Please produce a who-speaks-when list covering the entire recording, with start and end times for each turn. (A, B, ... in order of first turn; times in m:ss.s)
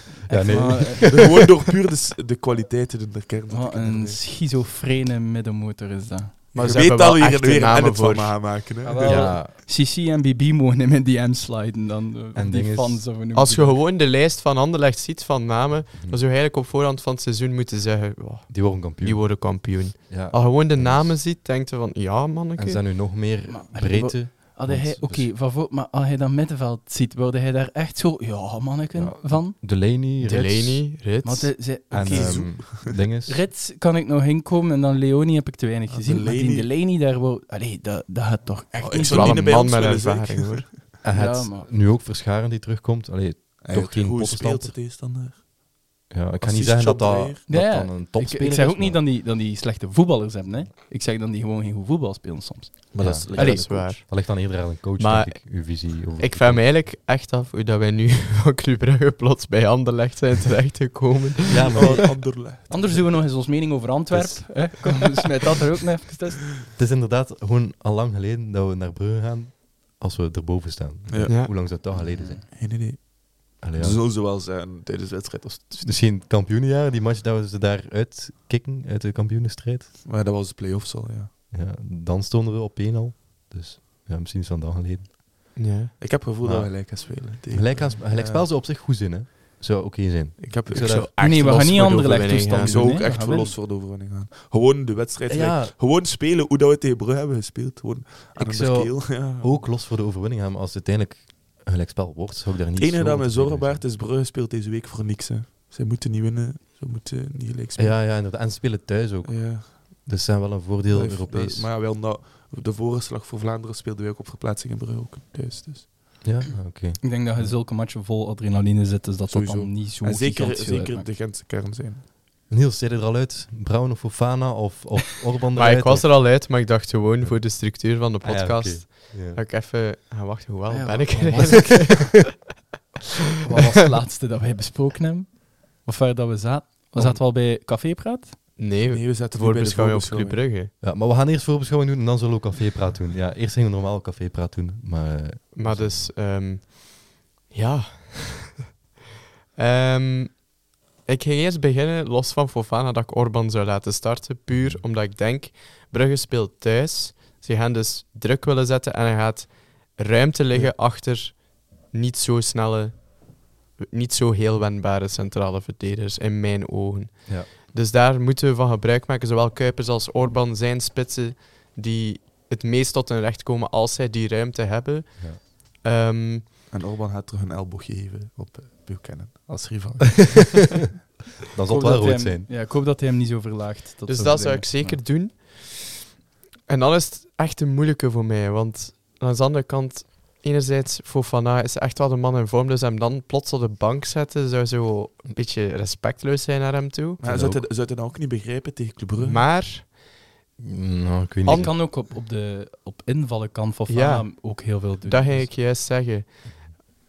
0:00.3-0:01.3 A
0:00.3-0:01.4 B
0:01.1-0:04.2 C
0:03.5-0:06.5 A
0:06.5-0:08.5 D
0:06.5-0:09.3 C
0:08.8-0:13.8 A
0:09.0-0:09.6 B
0:12.4-0:13.1 B
0:13.3-0:22.9 D
0:16.0-0:16.2 B
0:18.5-0:21.2 B
0:22.6-0:25.3 B
0:23.4-0:29.6 A
0:29.0-0:30.9 B
0:30.2-0:31.7 D
0:31.2-0:39.5 A
0:31.9-0:32.9 C
0:31.9-0:33.5 B
0:35.9-0:36.7 C
0:38.8-0:40.8 C
0:38.9-0:40.7 D
0:41.0-0:44.8 B
0:41.1-0:41.7 A
0:43.6-0:47.4 C
0:46.1-0:49.0 B
0:47.5-0:53.7 A
0:52.9-0:53.8 C
0:53.0-0:56.7 B
0:53.3-1:02.0 D
1:01.5-1:02.4 B
1:01.7-1:03.1 C
1:02.7-1:06.5 A
1:04.1-1:04.8 B
1:06.8-1:12.5 B
1:11.1-1:16.0 C
1:11.3-1:11.5 D
1:12.1-1:12.4 A
1:13.6-1:14.0 B
1:15.8-1:20.0 B
1:20.0-1:21.3 C
1:21.5-1:25.6 B
1:25.6-1:26.0 D
1:26.0-1:28.5 C
1:26.4-1:31.2 B
1:30.4-1:31.0 C
1:30.7-1:32.9 D
1:31.2-1:33.6 A
1:32.6-1:39.7 C
1:35.3-1:35.8 B
1:38.4-1:43.8 B
1:42.8-1:48.0 C
1:47.8-1:51.7 B
1:49.2-1:49.8 C
1:50.9-1:56.3 C
1:56.2-1:57.6 B
1:57.0-2:01.1 A
1:59.3-2:02.0 C
2:02.5-2:06.4 B
2:05.6-2:12.2 D
2:07.2-2:09.4 B
2:10.7-2:12.2 A
2:13.4-2:18.4 A
2:17.0-2:17.2 B
2:18.6-2:20.7 D
2:18.9-2:20.5 C
2:20.8-2:26.1 B
2:25.5-2:28.6 D
2:29.6-2:56.5 D
2:34.5-2:34.8 B
2:56.7-3:00.8 C
3:01.5-3:02.5 B
3:01.7-3:05.0 A
3:04.1-3:06.1 D
3:06.7-3:17.2 D
3:17.2-3:19.4 C
3:17.2-3:17.6 B
3:19.2-3:19.9 D
3:20.6-3:21.8 B
3:21.4-3:21.7 D
3:21.5-3:25.5 A
3:23.9-3:26.9 D